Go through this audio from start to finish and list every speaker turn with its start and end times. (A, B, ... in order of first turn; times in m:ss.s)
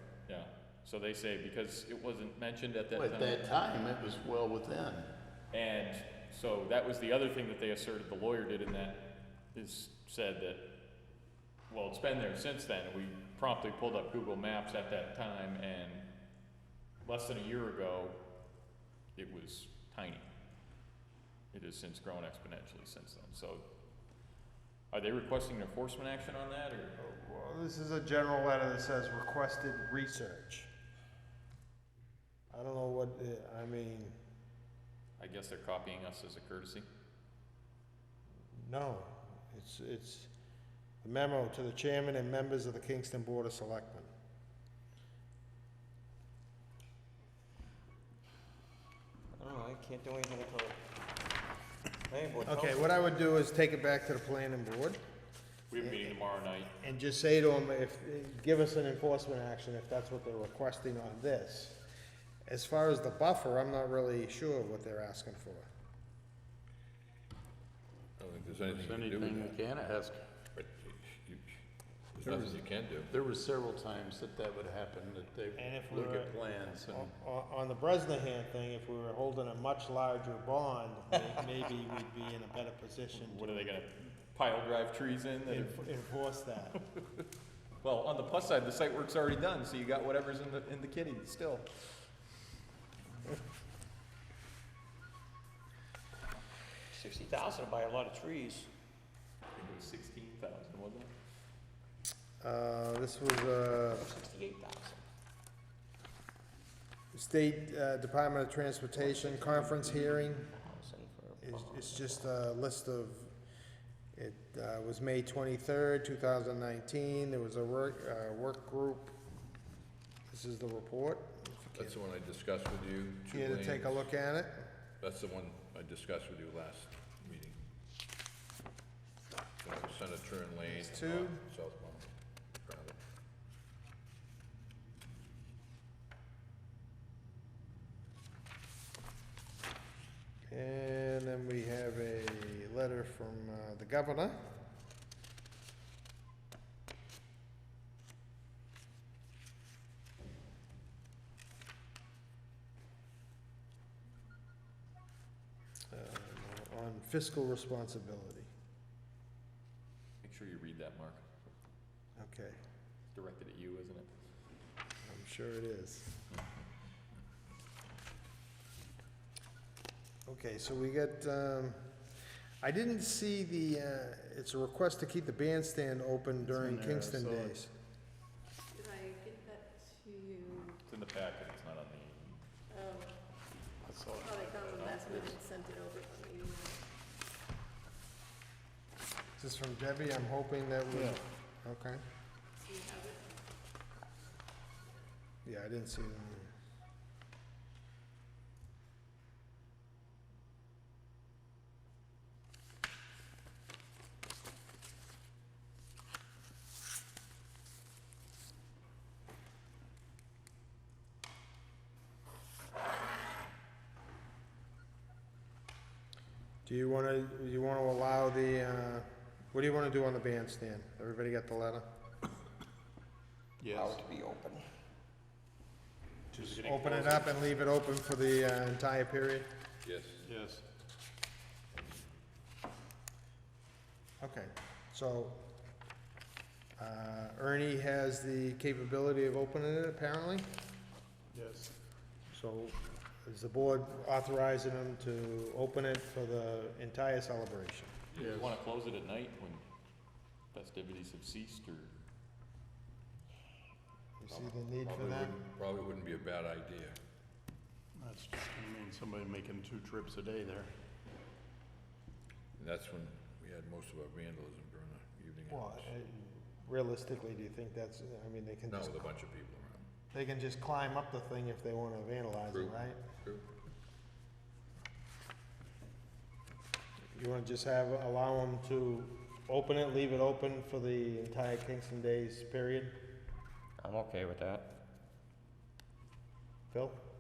0:00.3-0:03.4 A
0:03.0-0:05.1 B
0:05.5-0:10.7 A
0:11.7-0:16.0 A
0:17.0-0:18.2 A
0:19.2-0:20.3 A
0:21.5-0:23.6 A
0:24.9-0:26.9 A
0:27.0-0:30.7 C
0:32.5-0:34.2 C
0:35.2-0:36.9 A
0:38.6-0:40.3 C
0:41.0-0:44.1 C
0:49.4-0:50.8 D
0:52.1-0:52.8 D
0:52.4-0:55.0 C
0:55.7-0:56.7 A
0:55.8-0:56.2 C
0:56.8-1:01.8 C
1:02.5-1:05.7 C
1:08.2-1:09.6 E
1:08.7-1:10.2 B
1:10.6-1:11.6 E
1:12.2-1:13.1 E
1:12.2-1:17.1 B
1:15.6-1:23.7 C
1:23.1-1:25.8 A
1:25.5-1:26.8 C
1:27.8-1:31.7 A
1:36.9-1:38.7 D
1:39.6-1:41.1 A
1:42.4-1:44.0 C
1:44.0-1:45.0 D
1:47.1-1:50.5 C
1:49.0-1:52.1 D
1:51.4-1:53.3 C
1:54.2-1:59.1 C
2:00.3-2:02.0 C
2:01.7-2:04.1 E
2:03.3-2:04.7 C
2:05.0-2:07.6 E
2:09.6-2:12.1 E
2:10.7-2:11.4 C
2:12.6-2:13.0 E
2:20.5-2:24.5 C
2:35.9-2:38.5 C
2:40.2-2:41.2 A
2:42.2-2:42.6 C
2:43.1-2:44.1 A
2:45.0-2:46.1 C
2:50.3-2:51.8 C
2:52.6-2:57.7 C
2:56.4-2:57.6 B
2:58.7-3:00.8 F
3:00.9-3:02.4 A
3:02.7-3:03.2 F
3:03.8-3:04.4 B
3:04.2-3:06.8 F
3:04.6-3:05.4 A
3:09.4-3:12.0 C
3:10.9-3:11.2 B
3:12.6-3:13.4 F
3:15.4-3:16.5 C
3:36.6-3:41.9 C
3:43.6-3:44.1 B
3:43.8-3:44.6 D
3:46.3-3:49.5 C
3:46.4-3:47.5 B
3:49.8-3:50.2 E
3:50.2-3:50.6 B
3:54.2-3:55.4 C
3:56.8-4:00.5 C
4:01.3-4:01.7 B
4:02.3-4:07.9 C
4:08.2-4:08.5 B
4:08.3-4:09.6 A
4:10.5-4:11.9 A
4:14.2-4:15.4 C
4:14.3-4:17.0 E
4:18.0-4:20.7 B
4:22.6-4:25.9 E
4:25.5-4:29.0 C
4:28.7-4:29.9 E
4:30.1-4:33.0 C
4:32.5-4:33.4 E
4:37.1-4:43.0 C
4:43.8-4:44.7 D
4:46.7-4:47.0 C